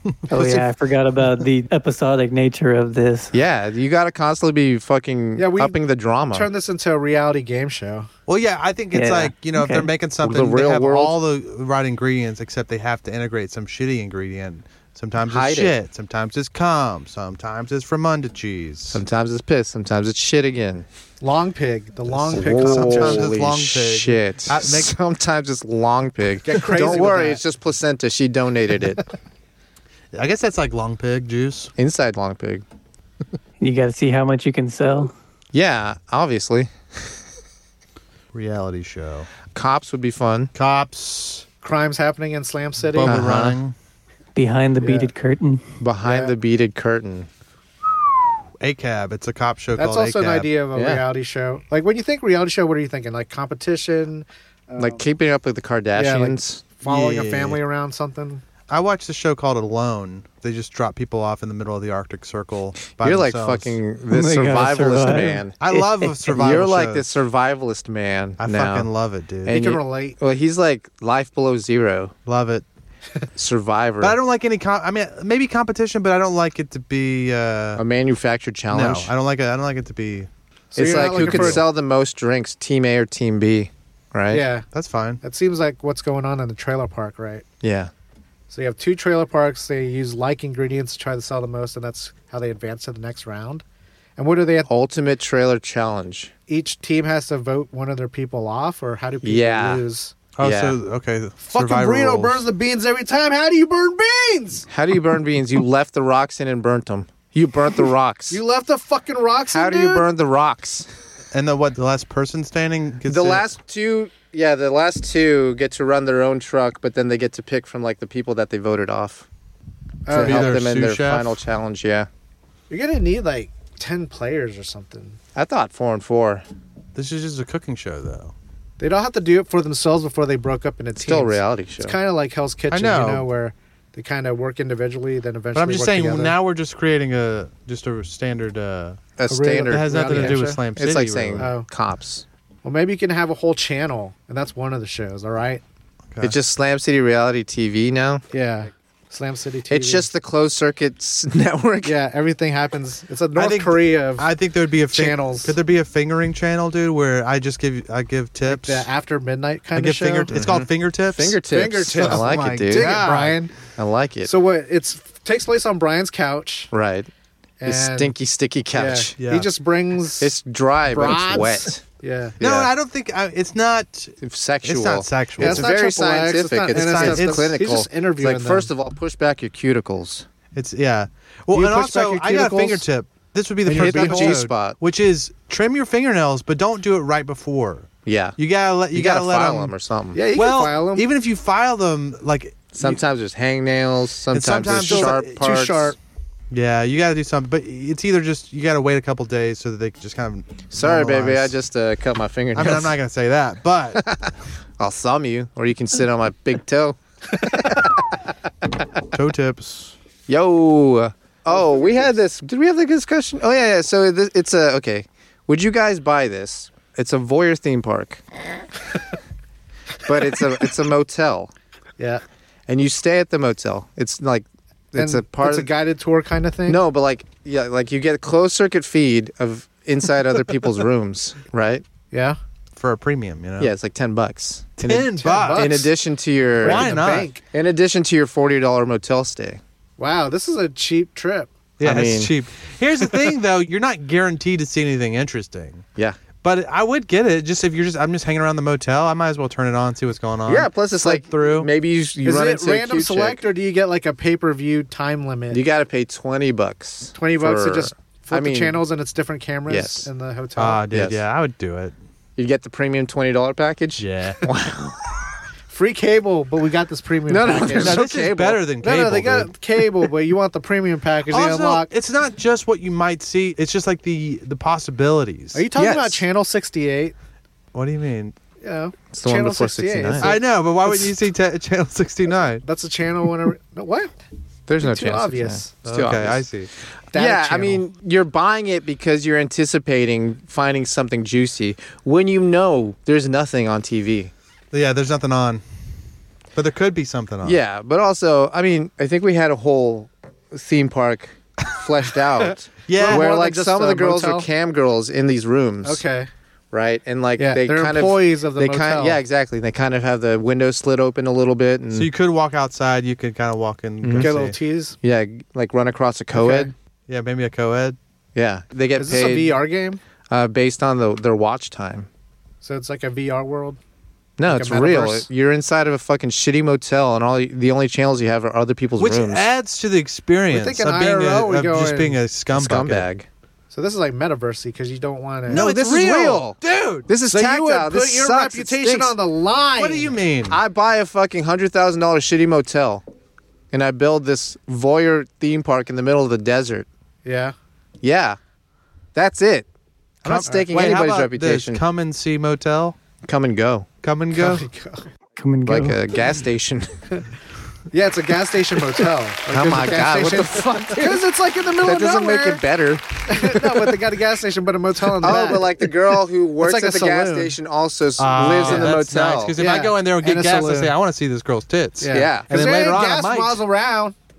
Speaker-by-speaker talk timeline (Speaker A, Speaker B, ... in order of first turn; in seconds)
Speaker A: 0.3-3.4, 8.9-9.9, 33.6-35.1, 44.3-45.6, 64.1-66.1, 355.4-356.0
Speaker B: 0.3-0.6, 3.3-6.5, 10.2-11.2, 15.2-15.7, 18.9-20.9, 22.3-29.0, 31.8-32.6, 35.5-37.1, 39.5-40.5, 43.0-43.6, 45.8-47.3, 50.7-51.0, 54.8-56.6, 63.0-65.5, 66.2-68.9, 69.4-72.2, 73.3-74.2, 77.8-79.1, 80.7-84.5, 87.6-87.9, 94.7-96.3, 99.2-99.8, 100.4-100.8, 104.7-108.4, 109.5-110.9, 113.0-119.2, 120.1-122.1, 125.3-126.4, 131.0-132.0, 139.2-142.2, 146.2-148.2, 149.7-152.0, 160.3-163.0, 163.7-164.3, 166.7-167.1, 167.6-169.1, 170.2-171.8, 172.4-172.7, 174.2-180.2, 183.7-184.8, 188.0-188.4, 188.9-190.2, 192.7-195.9, 200.7-202.9, 203.9-207.9, 210.3-218.2, 220.0-221.5, 222.7-225.7, 226.7-231.8, 233.6-237.0, 237.5-239.6, 241.8-242.3, 250.4-253.4, 255.5-258.8, 259.7-260.1, 260.9-261.2, 262.4-265.2, 267.3-268.6, 275.7-276.2, 279.1-280.4, 284.7-286.5, 287.1-294.3, 297.4-306.0, 306.7-312.1, 314.0-314.3, 315.0-316.7, 318.3-319.6, 320.3-322.1, 324.4-329.5, 332.5-333.3, 335.5-339.1, 340.5-343.0, 343.7-346.9, 348.0-348.4, 349.1-349.7, 350.2-351.8, 353.2-353.9, 355.6-356.9, 359.5-361.2, 361.8-364.0, 365.2-369.5, 372.1-372.7
Speaker C: 5.3-5.8, 6.3-8.1, 21.2-23.3, 26.4-27.4, 41.6-43.2, 44.8-45.1, 46.0-46.3, 49.8-55.0, 56.0-58.4, 69.5-70.2, 80.7-81.6, 84.3-84.7, 85.2-87.4, 88.5-93.6, 94.2-94.7, 96.5-100.1, 101.4-104.7, 108.3-110.1, 120.0-120.6, 122.7-125.2, 128.8-136.3, 139.3-140.6, 141.4-141.7, 142.6-145.6, 148.3-150.1, 151.8-154.3, 154.9-155.6, 158.5-160.3, 161.5-163.5, 164.2-166.7, 167.6-168.1, 168.7-170.4, 170.9-172.3, 175.4-178.7, 181.5-182.8, 183.7-184.4, 190.1-191.1, 194.8-195.9, 224.9-226.8, 232.1-232.4, 235.2-235.9, 236.6-237.4, 240.0-241.5, 252.2-255.6, 257.1-260.8, 265.7-268.0, 268.8-271.9, 275.5-277.1, 278.6-280.4, 282.6-284.1, 284.8-285.7, 287.1-287.8, 302.9-304.5, 305.8-306.3, 307.4-309.2, 314.1-314.9, 316.3-316.7, 319.0-320.0, 322.6-323.8, 324.5-325.3, 330.5-332.2, 333.7-335.6, 337.3-340.1, 347.2-347.5, 354.3-355.1, 357.9-362.6, 363.3-365.7, 366.6-367.5, 368.6-368.9, 369.6-370.9, 372.0-374.1
Speaker D: 8.3-19.0, 22.1-24.9, 30.1-31.7, 38.3-39.3, 40.5-41.4, 42.9-43.7, 48.6-50.5, 56.8-57.6, 58.7-63.8, 65.6-67.0, 68.4-69.6, 72.2-72.6, 74.0-77.8, 78.7-81.6, 84.7-85.2, 100.4-102.4, 111.3-113.4, 120.1-121.3, 126.9-128.3, 132.7-133.2, 135.5-139.0, 139.6-141.5, 153.3-158.9, 159.7-163.4, 169.2-169.5, 172.4-175.7, 176.7-177.5, 180.5-189.7, 190.3-193.0, 194.3-195.4, 196.5-201.5, 202.5-204.0, 209.1-209.9, 232.7-233.7, 234.8-235.9, 236.6-237.4, 241.8-245.8, 246.4-251.7, 260.6-261.9, 264.0-264.4, 267.7-269.5, 271.3-275.6, 277.7-278.3, 280.2-282.6, 285.8-286.7, 294.7-295.6, 296.5-297.6, 302.9-303.2, 311.9-314.6, 317.1-318.0, 329.0-333.1, 335.5-337.1, 339.8-340.6, 350.2-353.0, 354.0-354.6, 368.2-373.6